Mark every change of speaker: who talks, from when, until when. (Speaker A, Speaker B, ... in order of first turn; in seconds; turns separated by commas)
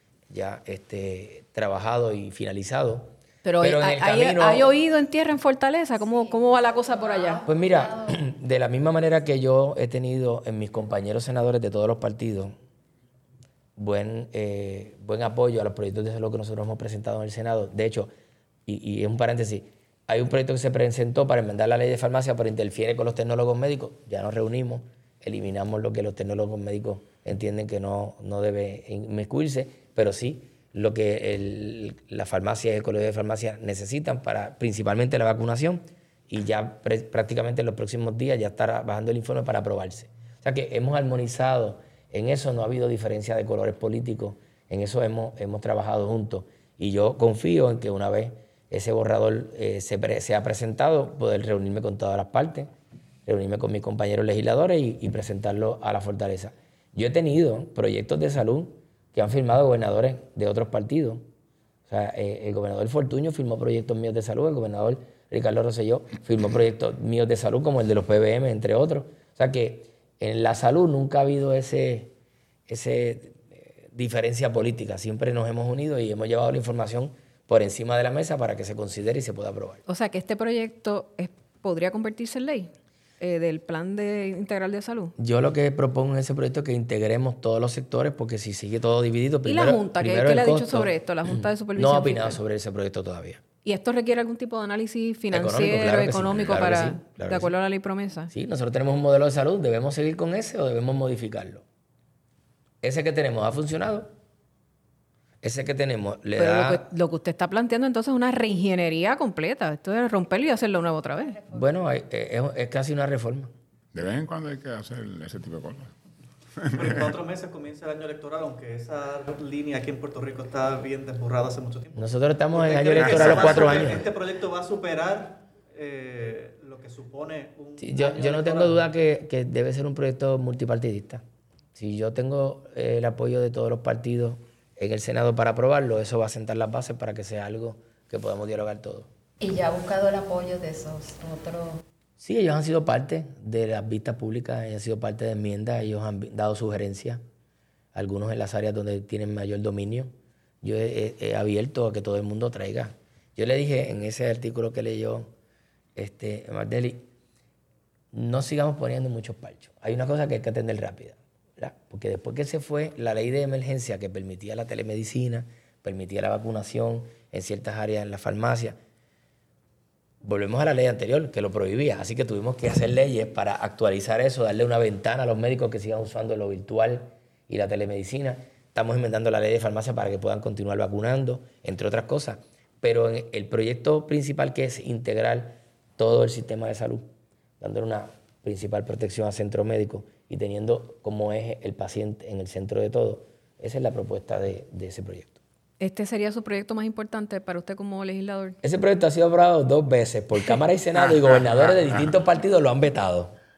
Speaker A: 0.3-4.7, Speaker B: 3.4-7.4, Speaker C: 7.0-7.5, Speaker A: 7.5-12.6, Speaker A: 13.8-18.1, Speaker A: 18.7-52.7, Speaker A: 53.3-61.2, Speaker A: 61.9-72.1, Speaker A: 72.7-79.8, Speaker B: 79.9-85.1, Speaker A: 85.2-93.4, Speaker B: 89.5-92.4, Speaker B: 93.7-98.3, Speaker A: 95.3-97.5, Speaker A: 98.3-101.6, Speaker A: 102.8-104.1, Speaker A: 105.4-106.8, Speaker B: 106.4-111.4, Speaker A: 111.5-113.5, Speaker D: 113.9-115.9, Speaker D: 116.6-117.1, Speaker E: 116.7-128.9, Speaker A: 122.0-124.0, Speaker D: 123.0-124.0, Speaker A: 127.8-131.2, Speaker A: 131.8-139.1, Speaker C: 139.4-141.8, Speaker A: 142.2-147.2, Speaker A: 147.9-150.1, Speaker A: 150.6-155.3, Speaker A: 156.0-157.1, Speaker A: 158.1-168.8, Speaker A: 170.2-187.1, Speaker A: 187.6-195.4, Speaker B: 195.8-198.6, Speaker A: 198.6-203.3, Speaker D: 201.2-202.0